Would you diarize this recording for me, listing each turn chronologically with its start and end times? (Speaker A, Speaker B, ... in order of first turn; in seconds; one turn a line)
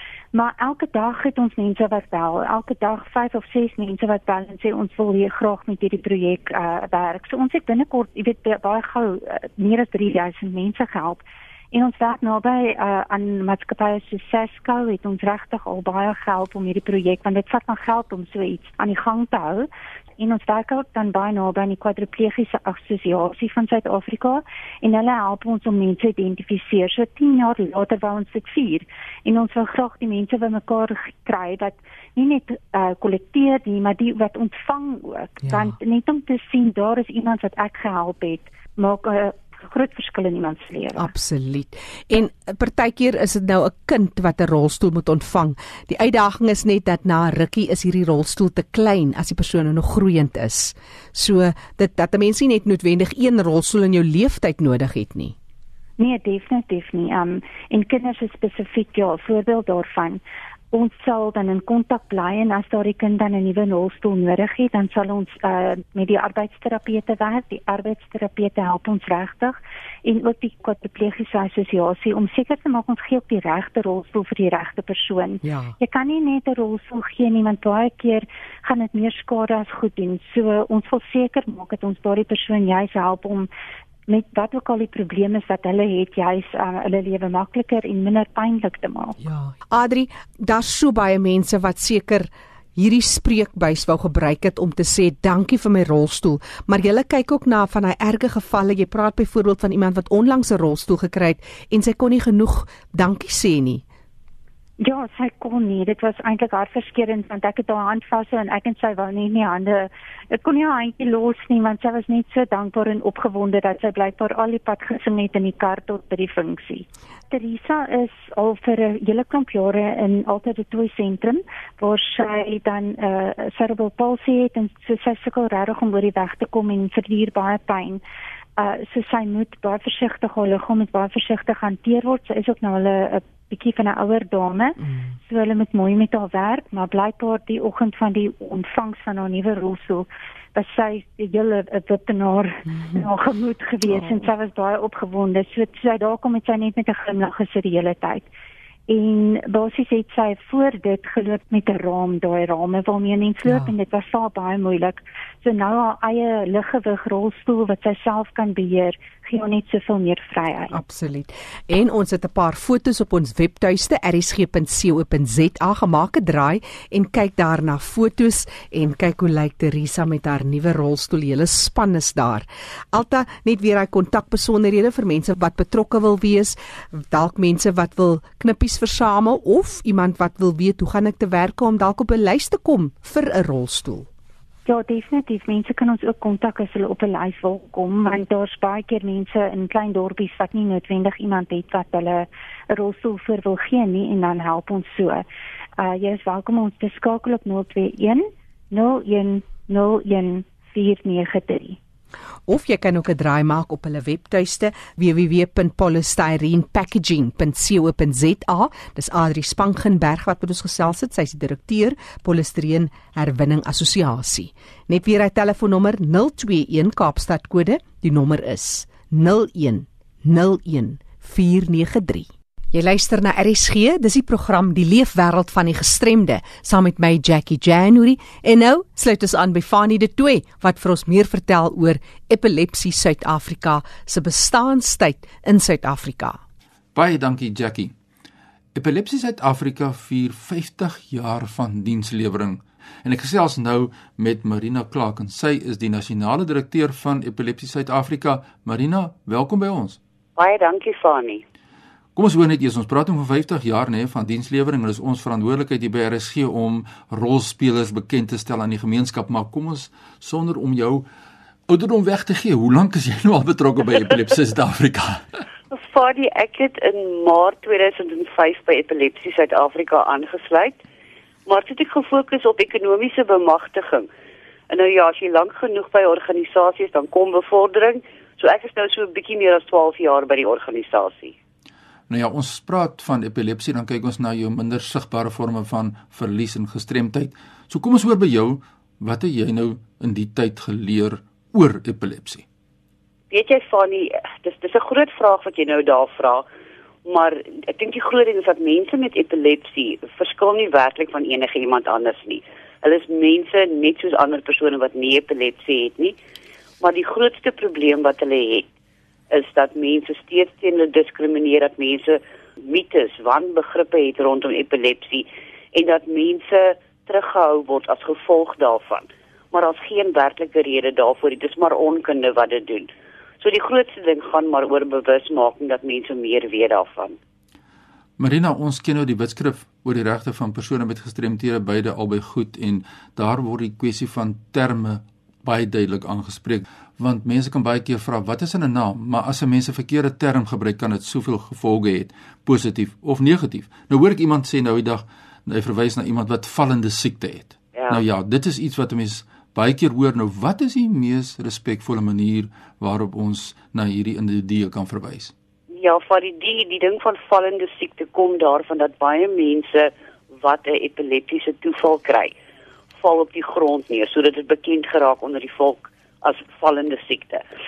Speaker A: 0.3-41.1
Speaker B: 35.4-35.8
Speaker B: 41.0-55.4
Speaker A: 56.0-60.2
Speaker A: 60.7-83.5
Speaker B: 75.4-75.8
Speaker A: 84.1-89.2
Speaker B: 89.2-103.8
Speaker A: 104.8-128.0
Speaker A: 128.6-148.3
Speaker B: 142.7-143.0
Speaker A: 148.9-160.7
Speaker B: 153.4-153.7
Speaker B: 160.7-184.1
Speaker A: 184.7-195.2
Speaker A: 195.8-201.8
Speaker B: 202.5-236.4
Speaker C: 236.9-237.9
Speaker C: 238.8-250.0
Speaker D: 250.4-251.4
Speaker C: 252.2-261.1
Speaker C: 261.7-265.4
Speaker D: 265.7-270.8
Speaker D: 271.5-274.1
Speaker D: 274.7-281.4
Speaker C: 282.1-292.4
Speaker D: 293.3-296.4
Speaker D: 297.1-306.2
Speaker D: 306.8-308.7
Speaker D: 309.3-327.2
Speaker C: 328.2-355.3
Speaker D: 347.8-348.0
Speaker D: 355.7-362.3
Speaker D: 363.0-367.4